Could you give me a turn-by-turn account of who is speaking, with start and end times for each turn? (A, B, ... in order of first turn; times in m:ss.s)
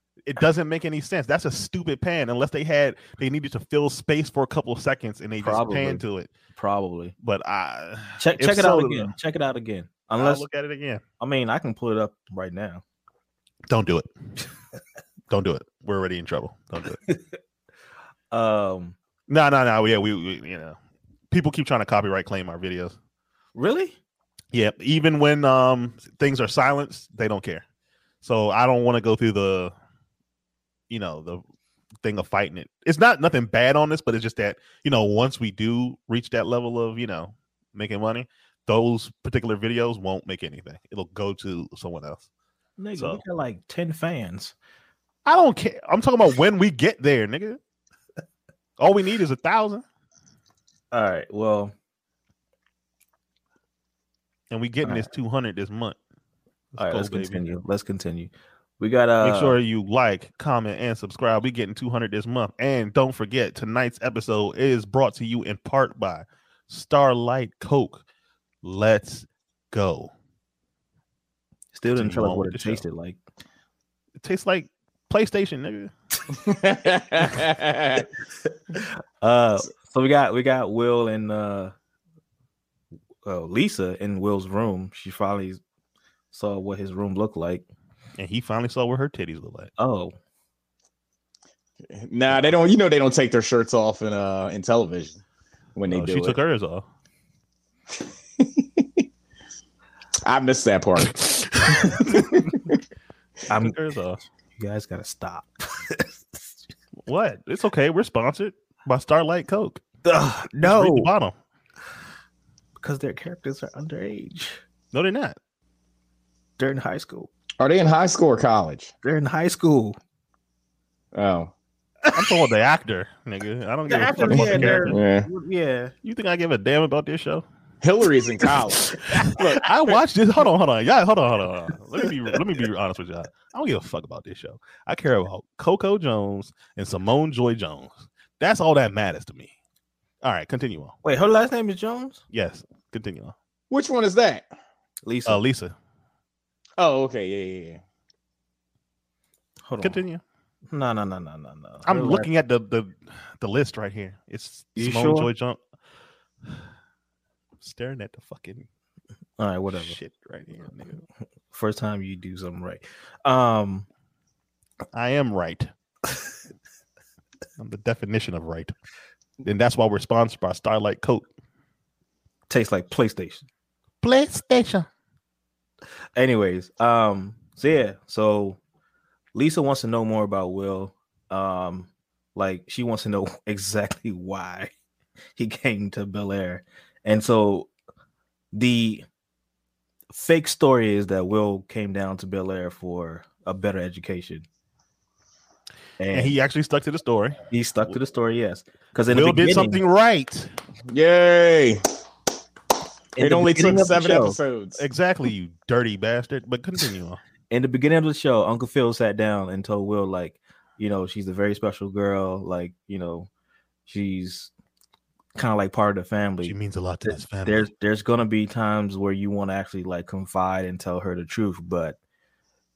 0:00.3-0:06.3 A
0:05.4-0:06.0 B
0:06.6-0:07.1 B
0:07.2-0:09.1 A
0:08.2-0:10.4 B
0:10.2-0:11.0 A
0:11.2-0:12.8 B
0:13.7-0:14.1 A
0:15.3-0:17.0 A
0:18.3-0:19.0 B
0:19.3-0:20.8 A
0:21.3-0:23.0 A
0:23.6-0:24.0 B
0:24.5-0:27.6 A
0:28.2-0:29.7 A
0:30.9-0:31.4 A
0:32.0-0:42.3 A
0:42.8-0:44.5 B
0:43.0-0:43.2 A
0:45.3-0:47.6 A
0:48.8-0:49.8 A
0:50.9-0:51.7 B
0:54.5-0:56.0 A
0:56.7-0:57.4 A
0:56.8-0:59.6 B
0:59.2-1:08.0 A
1:08.6-1:10.1 A
1:11.7-1:13.2 B
1:11.9-1:12.8 A
1:14.2-1:15.9 A
1:16.3-1:18.1 C
1:19.2-1:21.7 B
1:23.2-1:25.6 B
1:26.3-1:27.6 B
1:28.2-1:29.7 A
1:29.8-1:30.1 B
1:31.8-1:35.2 C
1:35.8-1:36.4 C
1:35.9-1:36.8 A
1:38.4-1:39.1 C
1:40.2-1:41.2 C
1:41.1-1:42.4 A
1:42.0-1:42.8 C
1:43.5-1:43.8 B
1:43.5-1:44.2 A
1:44.6-1:46.4 B
1:47.1-1:49.8 A
1:50.0-1:51.1 B
1:50.6-1:51.3 A
1:52.8-1:54.6 B
1:54.9-1:55.4 A
1:56.6-1:57.3 B
1:57.6-1:58.9 C
1:59.0-2:00.0 B
2:01.1-2:01.5 C
2:02.1-2:05.0 A
2:03.9-2:05.9 B
2:04.3-2:05.3 C
2:06.0-2:07.4 A
2:07.8-2:10.0 C
2:08.9-2:19.5 A
2:20.2-2:21.0 A
2:21.0-2:22.2 B
2:22.3-2:23.3 A
2:23.7-2:24.5 C
2:25.0-2:25.4 B
2:25.3-2:25.7 A
2:26.8-2:27.8 C
2:29.7-2:30.0 B
2:29.8-2:30.2 A
2:30.7-2:32.3 B
2:31.9-2:35.6 A
2:34.8-2:35.3 B
2:37.6-2:38.7 A
2:39.4-2:40.0 B
2:39.7-2:41.0 A
2:41.5-2:43.9 B
2:44.9-2:45.7 A
2:47.6-2:48.7 A
2:49.4-2:51.3 A
2:52.5-2:53.4 B
2:54.0-2:54.9 A
2:56.2-2:58.6 B
2:59.3-3:04.7 B
3:05.4-3:07.7 B
3:08.5-3:09.0 B
3:10.1-3:14.4 B
3:16.0-3:16.4 B
3:16.1-3:17.4 A
3:17.5-3:19.8 B
3:19.1-3:20.5 A
3:20.9-3:21.8 C
3:23.2-3:24.4 B
3:23.2-3:24.8 C
3:24.8-3:27.2 A
3:27.5-3:33.3 B
3:33.9-3:34.5 B
3:35.4-3:42.0 B
3:36.4-3:37.7 A